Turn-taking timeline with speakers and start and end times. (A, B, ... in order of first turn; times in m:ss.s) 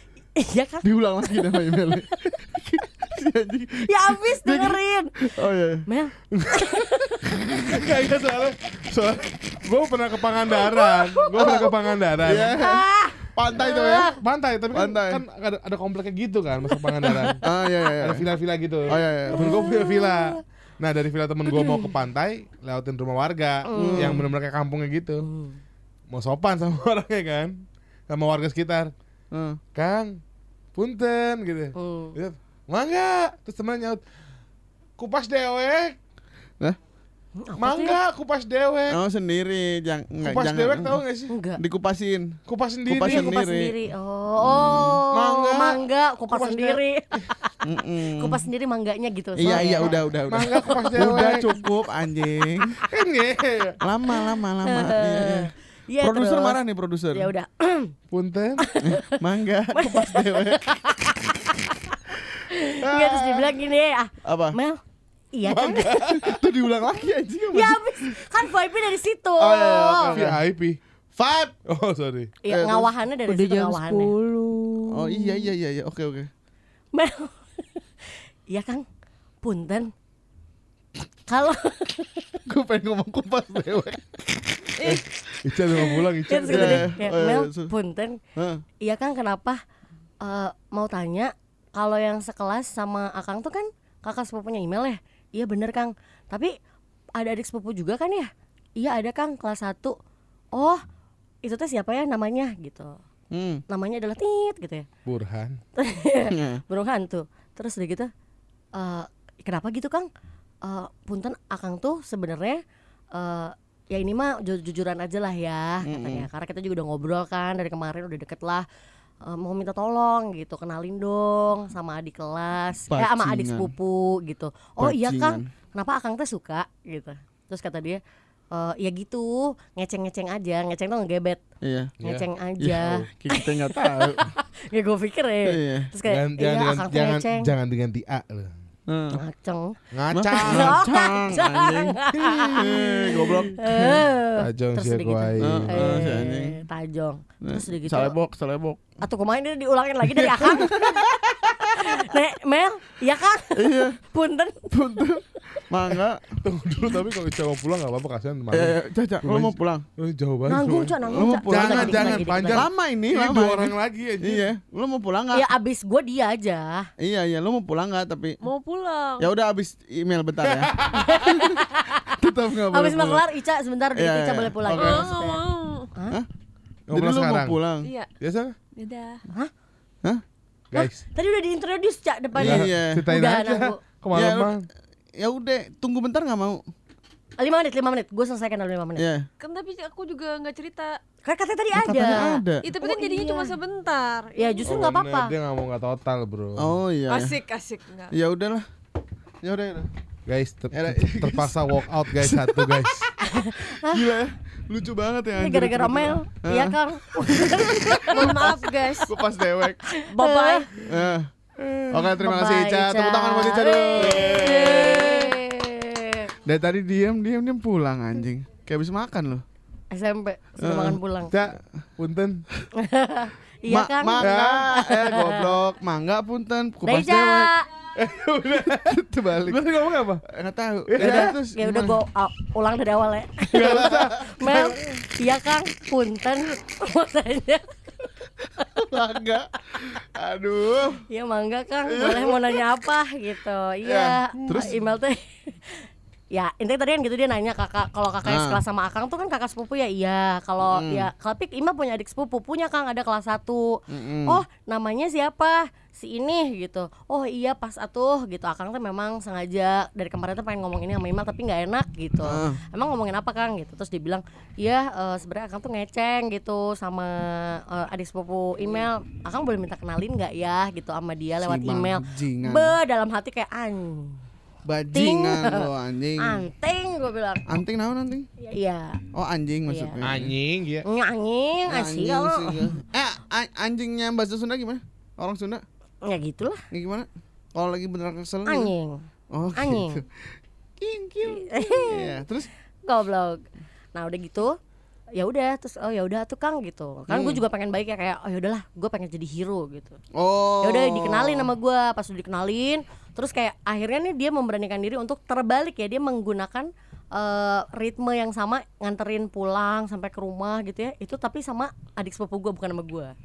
0:00.4-0:02.4 A
0:00.8-0:05.8 B
0:03.8-0:05.3 A
0:05.9-0:07.9 A
0:06.3-0:12.6 C
0:10.5-0:11.6 A
0:11.3-0:11.7 B
0:12.2-0:14.1 B
0:12.6-0:14.0 A
0:14.0-0:17.4 C
0:14.7-0:15.2 B
0:17.4-0:18.2 B
0:18.0-0:25.2 C
0:18.9-0:19.7 B
0:19.3-0:20.4 A
0:21.5-0:21.9 A
0:23.6-0:24.2 A
0:23.7-0:24.2 B
0:25.2-0:25.6 A
0:26.1-0:28.9 C
0:29.3-0:29.6 B
0:29.7-0:30.2 C
0:30.7-0:34.0 C
0:31.8-0:32.2 A
0:35.0-0:36.0 C
0:37.4-0:38.0 A
0:37.6-0:39.0 C
0:38.9-0:41.0 B
0:40.2-0:41.3 C
0:41.3-0:41.6 A
0:41.6-0:43.7 B
0:42.5-0:43.3 C
0:43.0-0:50.0 A
0:44.4-0:45.0 B
0:45.1-0:47.3 C
0:47.6-0:48.4 B
0:49.4-0:52.8 B
0:49.4-0:51.5 C
0:52.9-0:53.8 C
0:53.8-0:57.3 B
0:54.1-0:56.6 A
0:57.1-0:57.9 A
0:58.1-0:58.6 C
0:58.6-0:59.2 A
0:58.8-1:00.8 B
0:59.7-1:02.0 A
1:02.5-1:04.8 A
1:02.8-1:03.5 B
1:04.2-1:04.6 B
1:05.3-1:06.2 A
1:05.4-1:06.4 C
1:06.2-1:08.2 B
1:07.5-1:10.2 A
1:09.4-1:10.4 B
1:10.0-1:10.8 C
1:11.2-1:11.5 B
1:11.6-1:12.3 C
1:12.4-1:14.1 A
1:12.5-1:12.9 B
1:13.2-1:15.4 D
1:14.9-1:16.3 B
1:16.9-1:17.8 A
1:18.5-1:18.8 A
1:19.4-1:19.9 A
1:21.3-1:22.4 A
1:22.4-1:24.2 B
1:24.8-1:26.8 C
1:25.7-1:28.2 A
1:26.5-1:27.7 B
1:28.4-1:28.6 B
1:28.8-1:29.6 A
1:30.2-1:36.5 A
1:37.2-1:40.0 A
1:40.5-1:40.8 A
1:41.4-1:43.0 A
1:43.3-1:43.6 B
1:43.7-1:44.8 A
1:45.0-1:45.6 C
1:45.8-1:48.1 A
1:46.3-1:46.6 B
1:48.7-1:50.1 A
1:50.6-1:52.6 A
1:53.1-1:58.6 A
1:55.8-1:56.3 B
1:59.2-2:08.0 A
2:02.9-2:03.7 B
2:04.8-2:05.5 B
2:08.5-2:11.4 A
2:11.6-2:11.9 B
2:12.0-2:12.3 C
2:12.0-2:17.5 A
2:12.6-2:14.3 B
2:15.4-2:15.9 B
2:16.0-2:18.5 C
2:18.9-2:19.2 B
2:19.1-2:19.8 A
2:19.9-2:20.8 C
2:20.1-2:22.0 B
2:20.3-2:28.1 A
2:22.2-2:23.4 C
2:22.5-2:23.8 B
2:24.4-2:26.1 C
2:25.4-2:26.6 B
2:27.4-2:28.9 B
2:29.0-2:36.0 A
2:30.3-2:32.0 B
2:33.5-2:34.0 B
2:34.7-2:36.4 B
2:36.4-2:40.9 C
2:38.5-2:39.8 B
2:40.5-2:42.7 A
2:41.1-2:45.4 B
2:41.5-2:44.5 C
2:45.3-2:46.9 A
2:47.0-2:48.4 B
2:48.4-2:49.3 D
2:49.2-2:51.6 B
2:50.4-2:51.4 C
2:51.0-2:52.2 A
2:52.2-2:53.2 B
2:52.7-2:55.4 A
2:53.9-2:55.0 B
2:54.6-2:55.9 D
2:56.9-2:57.6 C
2:56.9-2:57.9 B
2:57.8-2:58.1 D
2:58.2-2:58.5 C
2:58.8-2:59.2 D
3:00.7-3:01.0 C
3:00.7-3:03.8 A
3:02.4-3:03.0 B
3:02.4-3:04.6 C
3:04.1-3:04.5 B
3:05.2-3:06.6 B
3:07.4-3:09.0 A
3:09.0-3:09.3 B
3:09.4-3:11.0 D
3:11.2-3:13.6 A
3:11.8-3:14.7 D
3:11.8-3:12.7 B
3:14.4-3:15.3 A
3:14.6-3:16.7 C
3:16.6-3:17.4 B
3:17.1-3:18.1 D
3:18.1-3:18.6 B
3:19.4-3:19.9 B
3:20.2-3:23.1 C
3:20.7-3:26.8 B
3:23.2-3:24.2 A
3:25.4-3:28.6 A
3:27.3-3:28.5 B
3:28.0-3:29.1 D
3:29.0-3:29.8 B
3:29.9-3:30.7 A
3:30.0-3:30.7 D
3:30.8-3:31.3 B
3:31.9-3:34.6 B
3:32.1-3:36.3 A
3:34.0-3:35.0 C
3:34.4-3:35.3 D
3:36.4-3:39.4 B
3:39.9-3:41.3 A
3:40.6-3:41.0 B
3:41.3-3:42.4 C
3:42.8-3:45.5 A
3:43.7-3:47.5 B
3:44.2-3:44.6 C
3:46.8-3:47.6 A
3:48.0-3:50.2 C
3:48.6-3:49.6 B
3:50.2-3:52.0 B
3:50.9-3:51.3 C
3:51.0-3:57.7 A
3:53.5-3:54.7 C
3:53.6-3:54.6 B
3:58.7-4:01.0 B
4:01.1-4:34.2 A
4:01.9-4:02.6 B
4:03.8-4:04.7 B
4:08.2-4:08.6 B
4:10.7-4:11.1 B
4:13.9-4:14.4 B
4:22.2-4:22.6 B
4:31.4-4:32.7 B
4:34.6-4:36.5 B
4:34.9-4:35.7 A
4:36.2-4:37.6 A
4:37.5-4:38.3 B
4:38.4-4:39.0 A
4:39.1-4:40.3 B
4:39.7-4:40.0 A
4:40.0-4:40.8 C
4:40.8-4:42.7 A
4:41.7-4:45.6 B
4:46.0-4:46.6 A
4:46.7-4:48.7 B
4:48.4-4:49.0 A
4:49.3-4:50.3 B
4:49.6-4:50.0 A
4:50.8-4:52.5 B
4:51.3-4:52.2 A
4:52.8-4:53.4 A
4:53.9-4:54.6 A
4:55.1-5:00.0 A
4:57.1-4:57.4 B
5:00.1-5:01.5 B
5:00.6-5:13.1 A